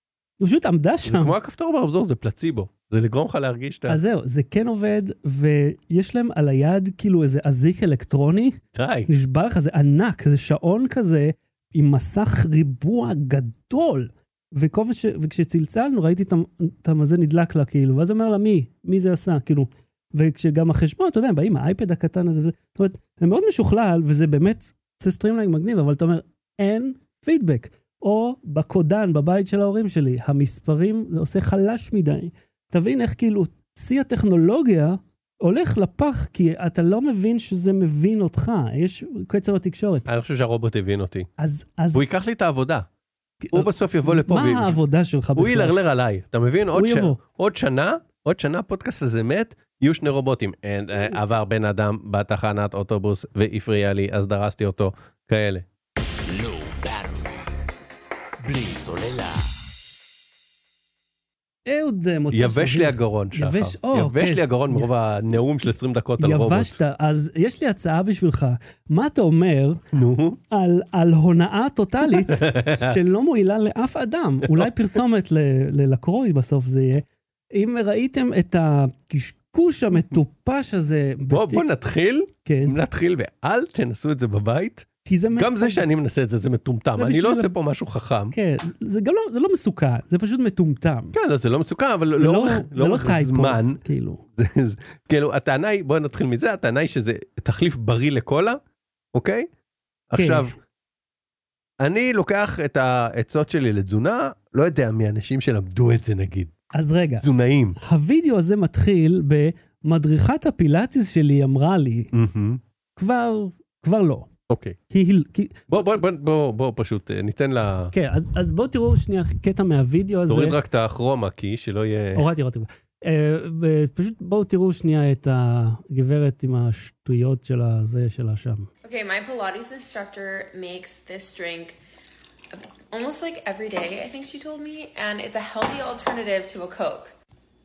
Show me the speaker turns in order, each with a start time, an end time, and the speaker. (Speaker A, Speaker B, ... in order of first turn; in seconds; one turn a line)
Speaker A: 0.4-1.3
Speaker B: 1.1-4.0
Speaker A: 3.9-40.1
Speaker B: 8.7-9.1
Speaker B: 40.1-41.3
Speaker A: 41.4-42.0
Speaker B: 41.9-42.9
Speaker A: 43.4-45.7
Speaker B: 43.5-44.8
Speaker B: 45.4-55.6
Speaker A: 46.7-47.2
Speaker C: 56.2-57.5
Speaker C: 58.4-59.5
Speaker A: 61.6-64.9
Speaker B: 62.3-66.8
Speaker A: 66.2-69.8
Speaker B: 69.9-70.4
Speaker A: 70.5-81.7
Speaker B: 72.1-73.0
Speaker B: 74.4-74.7
Speaker B: 81.3-88.3
Speaker A: 82.4-82.8
Speaker A: 85.0-85.8
Speaker A: 87.0-87.5
Speaker A: 88.3-91.2
Speaker B: 91.1-93.8
Speaker A: 92.2-94.2
Speaker B: 94.4-98.6
Speaker B: 99.1-99.5
Speaker B: 100.1-100.5
Speaker A: 100.2-100.5
Speaker B: 101.8-106.5
Speaker A: 106.7-107.3
Speaker B: 107.2-107.8
Speaker A: 107.8-112.1
Speaker B: 112.1-112.6
Speaker A: 113.0-114.3
Speaker B: 114.5-114.8
Speaker A: 114.9-115.8
Speaker B: 115.7-117.9
Speaker A: 117.9-120.6
Speaker B: 120.3-122.3
Speaker A: 122.1-128.7
Speaker D: 128.8-131.8
Speaker D: 132.5-137.1